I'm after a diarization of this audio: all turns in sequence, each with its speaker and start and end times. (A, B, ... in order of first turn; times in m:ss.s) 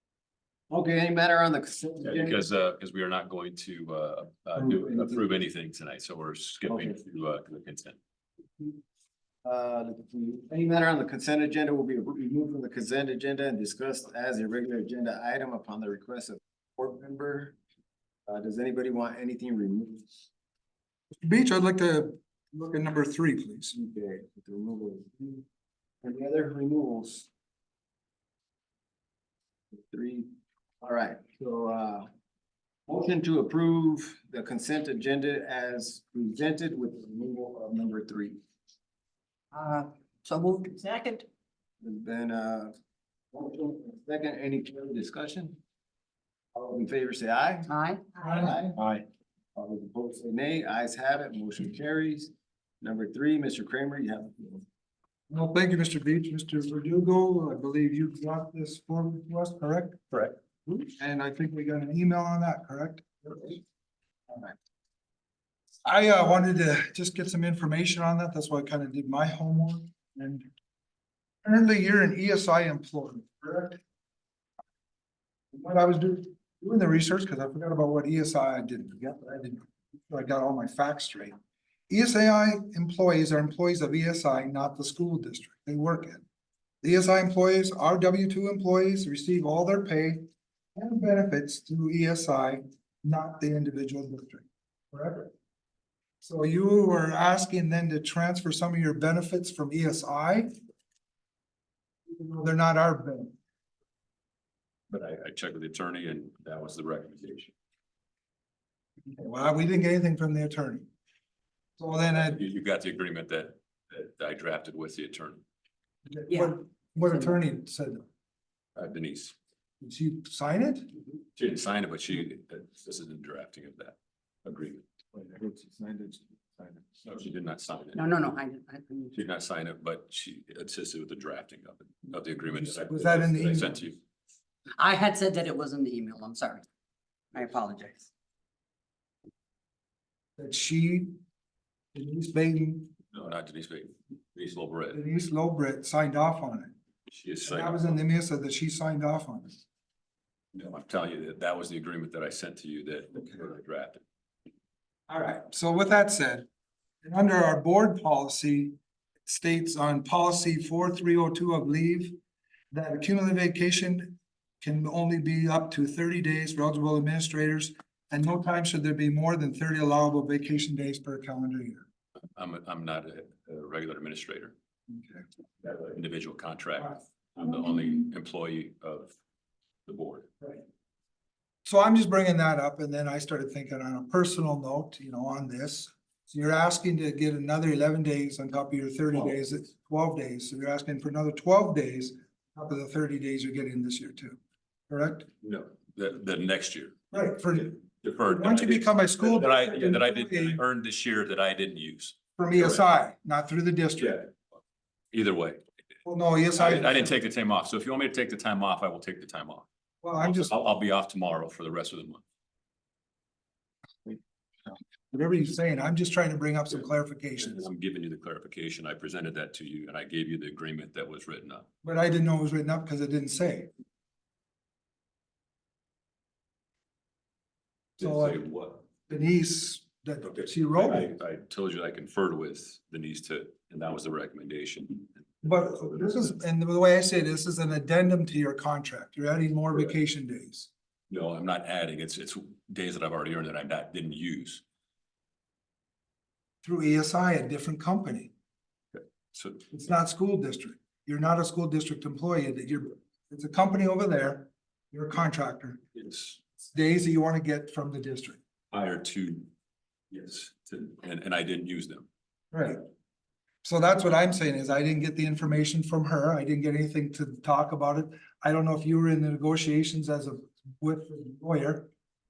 0:00.7-0:02.5 A
0:02.0-0:08.0 B
0:04.6-0:05.2 A
0:06.7-0:07.0 A
0:09.4-0:17.5 A
0:18.3-0:20.1 A
0:21.2-0:23.7 C
0:23.7-0:25.4 A
0:26.0-0:27.3 A
0:29.7-0:30.3 A
0:30.8-0:32.1 A
0:32.9-0:38.4 A
0:39.5-0:41.2 D
0:41.8-0:42.7 A
0:43.3-0:45.6 A
0:46.5-0:47.7 A
0:47.7-0:48.0 D
0:48.2-0:48.6 C
0:48.3-0:49.0 A
0:49.6-0:54.6 A
0:55.3-1:00.0 C
1:00.1-1:00.8 B
1:01.0-1:03.6 C
1:05.8-1:10.5 C
1:11.4-1:13.8 C
1:15.5-1:21.4 C
1:21.9-1:26.2 C
1:26.8-1:35.3 C
1:36.2-1:40.6 C
1:42.1-1:43.3 C
1:44.9-1:47.5 B
1:49.1-1:50.9 C
1:51.8-1:52.4 C
1:52.2-1:55.4 B
1:56.0-1:58.0 C
1:56.3-1:56.5 D
1:57.1-1:57.3 D
1:58.8-1:59.3 B
1:59.8-2:00.9 C
2:01.3-2:04.8 B
2:05.1-2:07.0 A
2:07.0-2:08.0 B
2:07.9-2:09.1 D
2:09.1-2:14.0 B
2:12.4-2:13.8 C
2:14.8-2:16.6 D
2:17.3-2:18.1 D
2:20.4-2:21.2 C
2:21.9-2:22.9 C
2:23.1-2:25.0 B
2:24.9-2:26.7 C
2:27.1-2:27.8 B
2:27.4-2:29.6 C
2:30.5-2:34.0 B
2:35.1-2:36.5 C
2:37.0-2:42.2 C
2:42.7-2:51.9 C
2:52.4-2:54.5 B
2:54.9-2:55.2 C
2:55.6-2:59.1 B
2:59.9-3:00.3 B
3:01.6-3:14.4 C
3:14.9-3:15.3 C
3:15.4-3:17.0 B
3:17.1-3:20.6 C
3:17.6-3:22.8 B
3:22.4-3:24.3 C
3:24.0-3:24.3 B
3:25.1-3:25.6 B
3:26.0-3:27.1 C
3:26.5-3:29.7 B
3:30.0-3:30.5 C
3:30.2-3:32.2 B
3:35.1-3:37.6 C
3:37.4-3:41.7 B
3:41.8-3:43.7 C
3:48.0-3:48.8 B
3:48.0-3:48.4 C
3:49.0-3:51.1 C
3:50.2-3:56.0 B
3:55.4-4:00.7 C
4:01.1-4:04.6 B
4:06.6-4:08.3 C
4:08.9-4:09.6 B
4:09.7-4:15.8 C
4:16.0-4:16.4 B
4:16.6-4:18.4 C
4:18.7-4:19.5 B
4:20.1-4:22.1 B
4:22.5-4:22.8 C
4:23.6-4:31.9 C